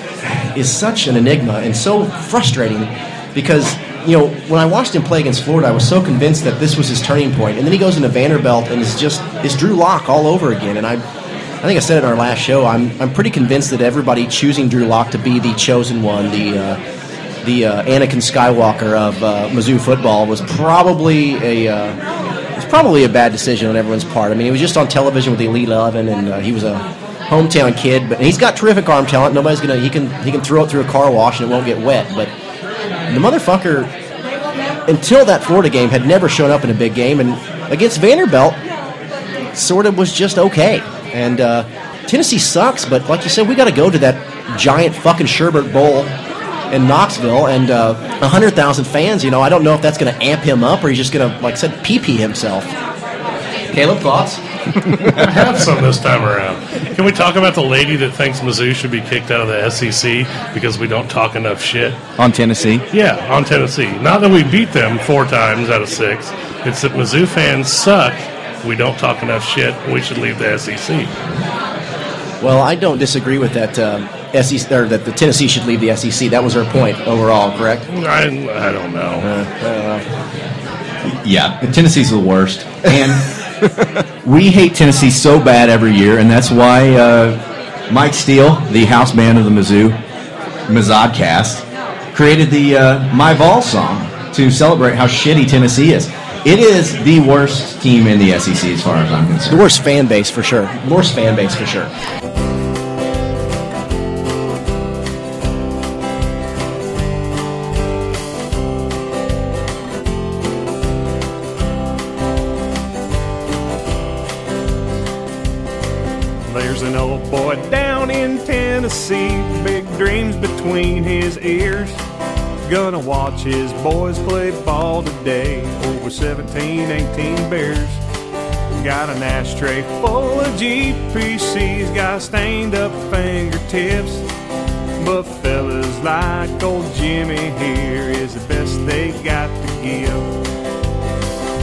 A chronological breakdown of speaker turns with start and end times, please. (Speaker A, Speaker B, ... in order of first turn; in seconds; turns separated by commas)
Speaker A: 0.2-11.0, Speaker A: 11.6-16.8, Speaker A: 17.4-22.0, Speaker A: 22.6-32.3, Speaker A: 33.1-33.9, Speaker A: 34.8-38.6, Speaker A: 39.5-46.1, Speaker A: 46.7-52.7, Speaker A: 53.7-54.4, Speaker B: 55.1-62.0, Speaker C: 62.2-62.8, Speaker B: 62.9-71.1, Speaker A: 72.4-77.8, Speaker B: 77.9-79.3, Speaker A: 79.2-80.1, Speaker C: 81.0-83.2, Speaker C: 84.2-90.0, Speaker C: 90.7-99.7, Speaker A: 99.5-101.9, Speaker D: 116.5-122.0, Speaker D: 122.7-128.0, Speaker D: 128.8-134.2, Speaker D: 135.0-140.4